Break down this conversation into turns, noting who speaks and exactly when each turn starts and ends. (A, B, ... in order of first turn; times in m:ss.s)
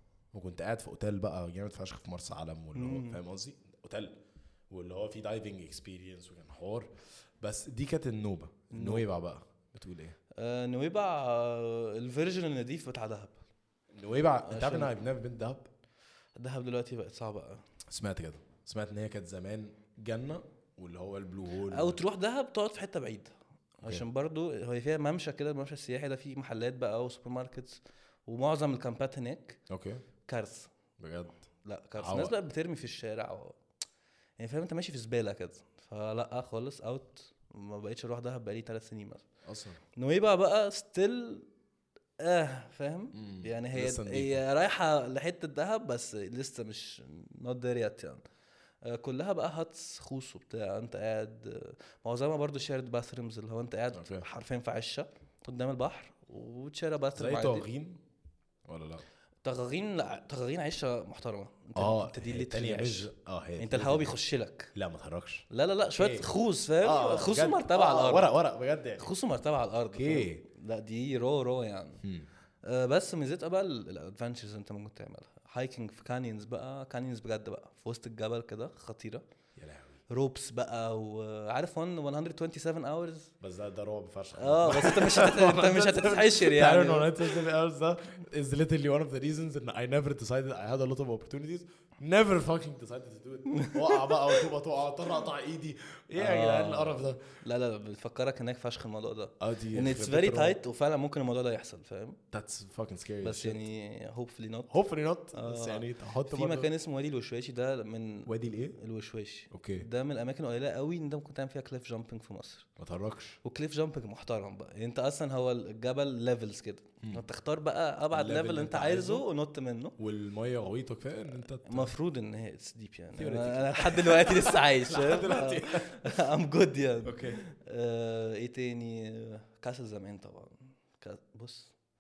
0:00.3-0:04.2 A
0:02.8-0:03.2 B
0:04.7-0:10.2 A
0:08.7-0:09.0 B
0:10.4-0:13.4 B
0:13.9-0:15.7 A
0:14.5-0:14.9 B
0:16.4-0:17.6 B
0:17.9-0:22.0 A
0:21.7-0:29.6 B
0:29.7-0:30.0 A
0:30.3-0:30.7 B
0:31.0-0:32.4 A
0:31.6-0:33.6 B
0:34.4-0:39.3 B
0:39.4-0:39.8 A
0:40.0-0:41.5 B
0:42.2-0:48.2 B
0:43.1-0:44.4 A
0:48.8-0:57.7 B
0:53.9-0:54.3 A
0:57.1-0:58.0 A
0:58.7-0:59.0 A
0:59.4-1:04.7 B
1:01.8-1:04.2 A
1:04.7-1:06.3 A
1:05.5-1:08.3 B
1:06.8-1:09.1 A
1:09.0-1:12.0 B
1:09.9-1:10.4 A
1:12.0-1:12.3 A
1:12.6-1:19.2 B
1:19.6-1:20.0 A
1:20.1-1:23.3 B
1:23.4-1:37.4 A
1:24.4-1:27.5 B
1:33.6-1:34.4 B
1:36.2-1:42.2 B
1:39.4-1:40.6 A
1:42.3-1:43.6 A
1:43.2-1:44.8 B
1:44.7-1:46.7 A
1:45.3-1:52.7 B
1:48.3-1:48.8 A
1:49.5-1:49.9 A
1:52.8-1:53.4 A
1:53.4-2:00.0 B
1:58.1-1:59.2 A
2:00.0-2:02.0 A
2:01.6-2:11.7 B
2:03.2-2:06.2 A
2:07.0-2:07.5 A